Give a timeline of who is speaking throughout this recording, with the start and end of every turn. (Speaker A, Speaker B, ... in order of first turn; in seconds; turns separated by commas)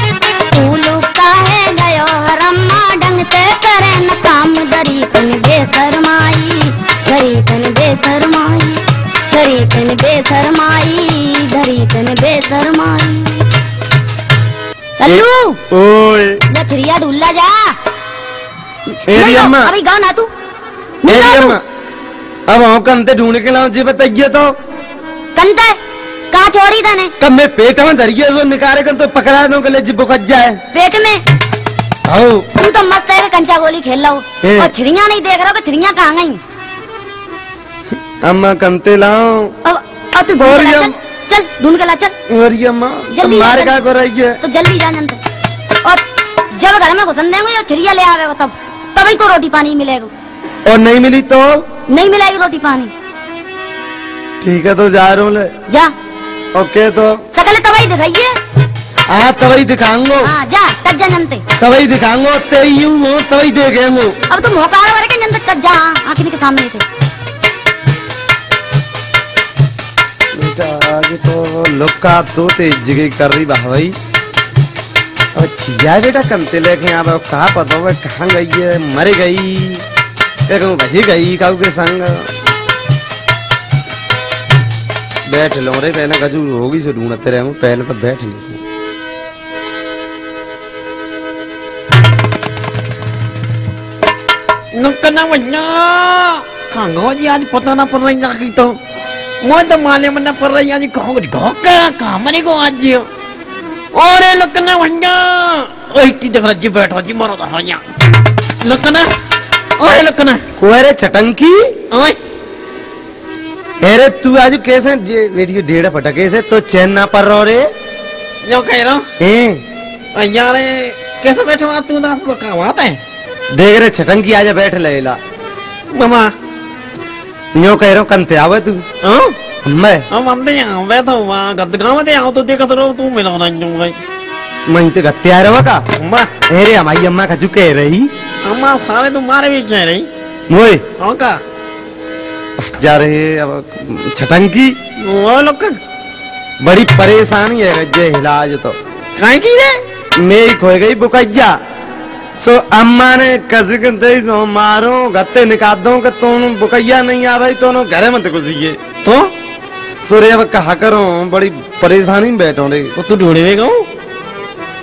Speaker A: 0.5-13.4, Speaker A: 15.0-15.6, Speaker B: 15.1-16.4, Speaker A: 16.5-17.8, Speaker A: 18.9-20.3, Speaker B: 19.1-19.7, Speaker A: 21.0-21.6, Speaker B: 21.1-21.6, Speaker B: 22.5-24.6, Speaker A: 25.4-25.8, Speaker A: 26.3-27.1, Speaker B: 27.2-30.6, Speaker A: 30.7-31.2, Speaker B: 32.1-32.5, Speaker A: 32.5-36.4, Speaker B: 34.4-34.7, Speaker B: 38.2-39.5, Speaker A: 39.6-42.1, Speaker B: 40.4-40.9, Speaker B: 42.3-44.4, Speaker A: 43.1-43.7, Speaker A: 44.4-45.2, Speaker A: 45.8-50.1, Speaker B: 50.7-51.6, Speaker A: 51.9-52.9, Speaker B: 54.4-55.5, Speaker B: 56.5-57.2, Speaker A: 57.3-58.3, Speaker B: 59.1-60.3, Speaker A: 60.2-61.4, Speaker B: 61.6-64.1, Speaker A: 64.3-66.8, Speaker B: 70.3-74.0, Speaker B: 75.3-79.8, Speaker B: 80.5-82.3, Speaker B: 85.3-88.6, Speaker C: 94.7-98.8, Speaker C: 99.4-103.1, Speaker C: 103.9-107.8, Speaker C: 108.6-109.1, Speaker C: 109.8-110.4, Speaker B: 110.6-111.7, Speaker C: 111.9-112.2, Speaker B: 113.8-117.7, Speaker C: 118.4-119.1, Speaker B: 119.2-119.6, Speaker C: 120.1-123.0, Speaker B: 123.5-125.2, Speaker C: 125.9-126.3, Speaker B: 127.5-128.8, Speaker C: 129.0-129.3, Speaker B: 129.6-130.1, Speaker C: 130.1-134.0, Speaker B: 134.7-135.8, Speaker C: 136.0-136.3, Speaker B: 136.5-138.1, Speaker C: 138.4-140.1, Speaker B: 140.5-140.8, Speaker C: 141.0-141.4, Speaker B: 142.6-144.8, Speaker C: 145.0-145.8, Speaker B: 146.6-148.8, Speaker C: 149.2-149.8, Speaker B: 150.2-151.6, Speaker B: 152.4-158.8, Speaker C: 159.0-159.3, Speaker B: 160.0-162.9, Speaker C: 163.0-163.9